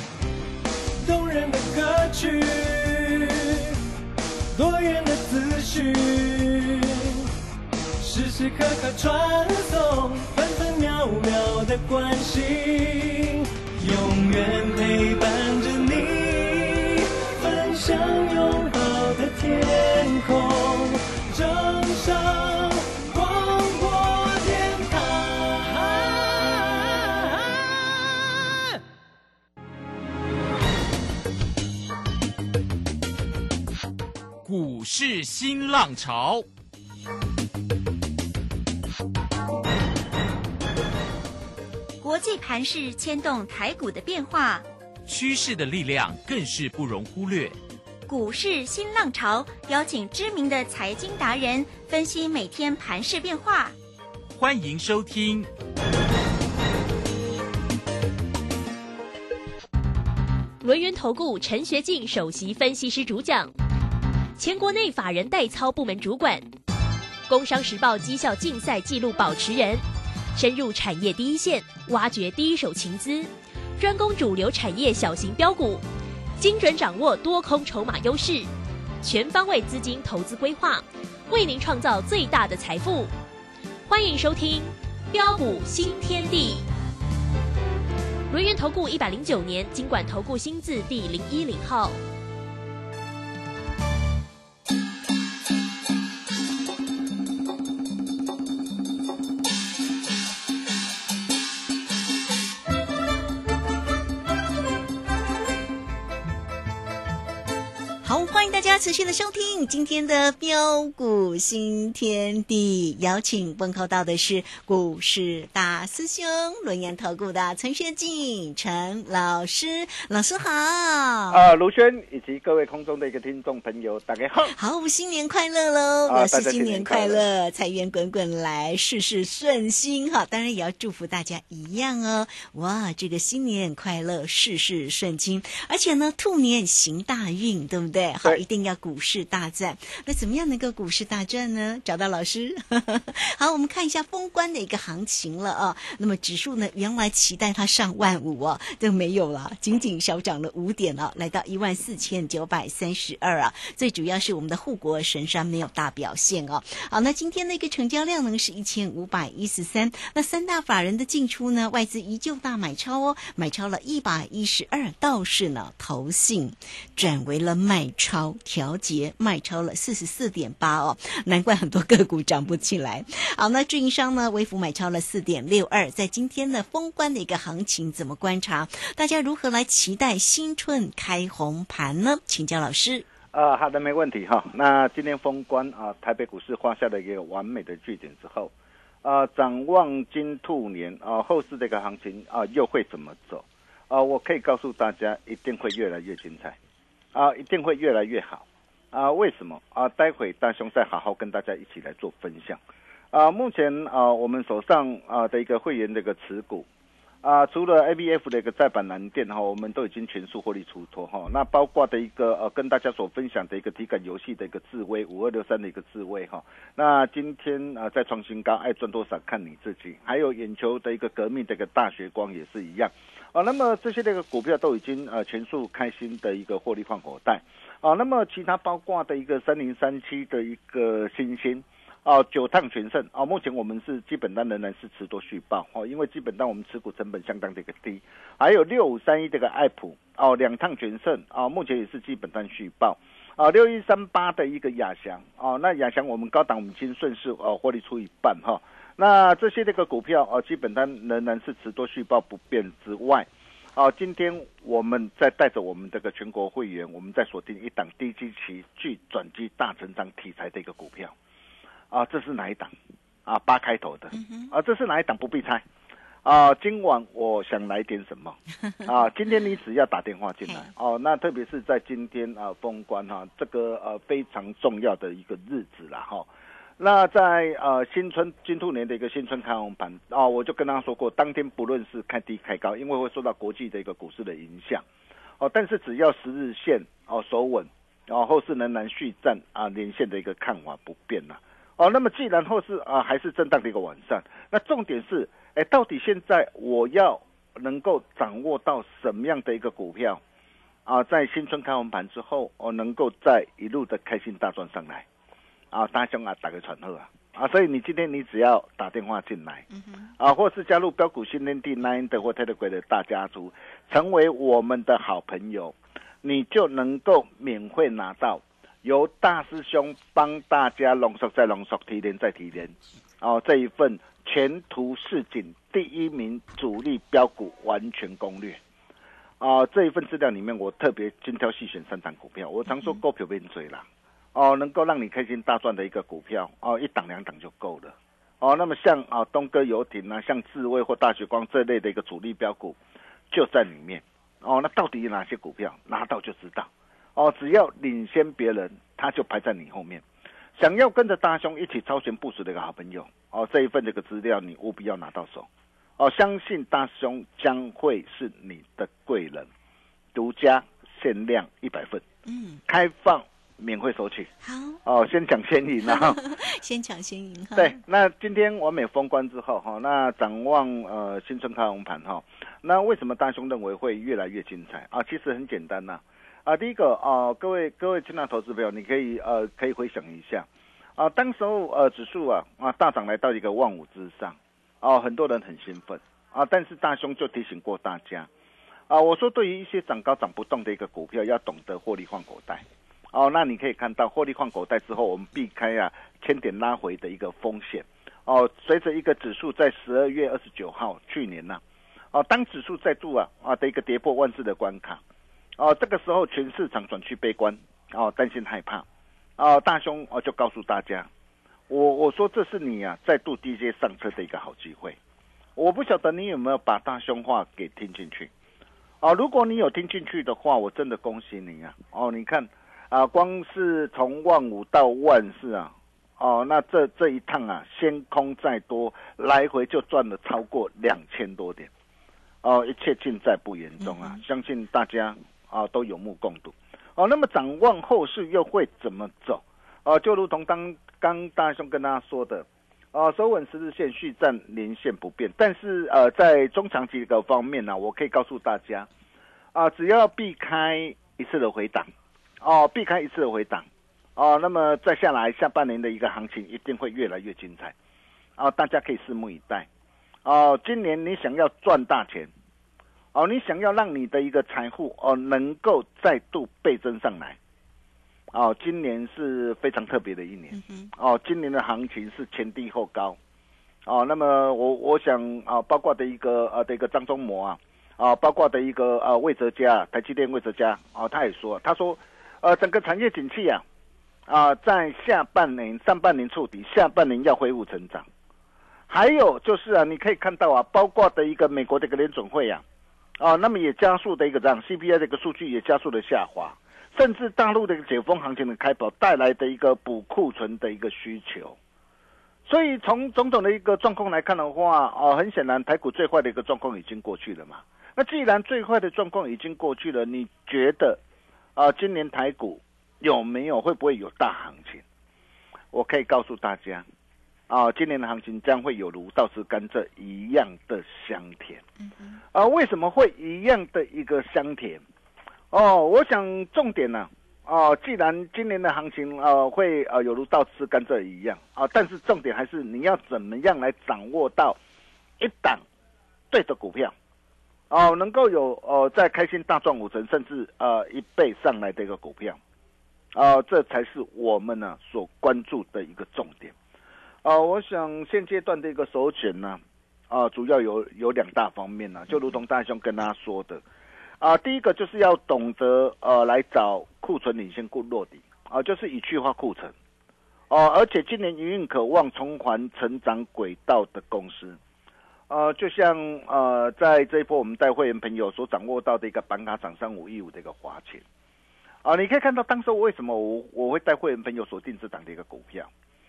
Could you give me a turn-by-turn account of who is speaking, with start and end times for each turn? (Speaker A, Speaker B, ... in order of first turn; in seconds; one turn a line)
Speaker A: 1.0-3.8
Speaker A: 4.5-7.3
Speaker A: 8.0-27.5
Speaker B: 34.4-36.5
Speaker C: 42.0-44.7
Speaker B: 45.1-47.6
Speaker C: 48.1-53.8
Speaker B: 54.4-55.5
Speaker D: 60.6-63.5
Speaker D: 64.4-66.5
Speaker D: 67.3-69.8
Speaker D: 70.3-75.8
Speaker D: 76.4-78.5
Speaker D: 79.0-83.1
Speaker D: 83.9-86.6
Speaker D: 88.3-92.0
Speaker E: 108.0-121.4
Speaker F: 121.3-124.5
Speaker E: 124.5-183.1
Speaker F: 126.1-127.2
Speaker F: 183.3-188.5
Speaker F: 189.0-196.6
Speaker F: 197.2-202.6
Speaker F: 203.1-206.7
Speaker F: 207.2-261.1
Speaker F: 261.9-262.7
Speaker F: 263.3-265.6
Speaker E: 264.1-264.5
Speaker F: 266.2-276.3
Speaker F: 276.8-284.8
Speaker F: 285.4-300.2
Speaker F: 300.9-305.1
Speaker F: 305.7-309.7
Speaker E: 309.7-310.1
Speaker F: 310.2-328.6
Speaker F: 329.4-342.8
Speaker F: 343.3-350.0
Speaker F: 350.6-355.5
Speaker F: 356.0-359.5
Speaker F: 360.1-362.0
Speaker E: 362.3-362.6
Speaker F: 362.7-364.3
Speaker E: 364.4-364.8
Speaker F: 364.9-366.2
Speaker E: 365.9-367.8
Speaker F: 367.6-388.3
Speaker F: 388.9-401.6
Speaker F: 402.1-405.0
Speaker F: 405.6-408.9
Speaker F: 409.4-411.1
Speaker F: 411.7-415.0
Speaker F: 415.6-418.3
Speaker F: 419.0-431.7
Speaker F: 432.4-448.9
Speaker E: 433.8-434.2
Speaker F: 449.5-451.9
Speaker F: 452.4-457.7
Speaker F: 458.4-459.7
Speaker F: 460.2-462.3
Speaker F: 463.1-467.4
Speaker F: 468.3-473.2
Speaker E: 470.5-470.9
Speaker F: 473.9-483.6
Speaker F: 484.3-488.1
Speaker F: 488.9-492.6
Speaker F: 493.2-501.6
Speaker F: 502.5-511.0
Speaker F: 511.6-514.8
Speaker F: 515.7-516.9
Speaker F: 517.5-521.6
Speaker E: 521.9-522.2
Speaker F: 522.3-524.8
Speaker F: 525.5-534.6
Speaker F: 535.2-535.6
Speaker F: 536.3-536.9
Speaker F: 537.7-542.4
Speaker F: 543.1-546.5
Speaker F: 547.2-553.6
Speaker F: 554.2-559.7
Speaker F: 560.5-564.6
Speaker F: 565.3-571.0
Speaker F: 571.8-575.7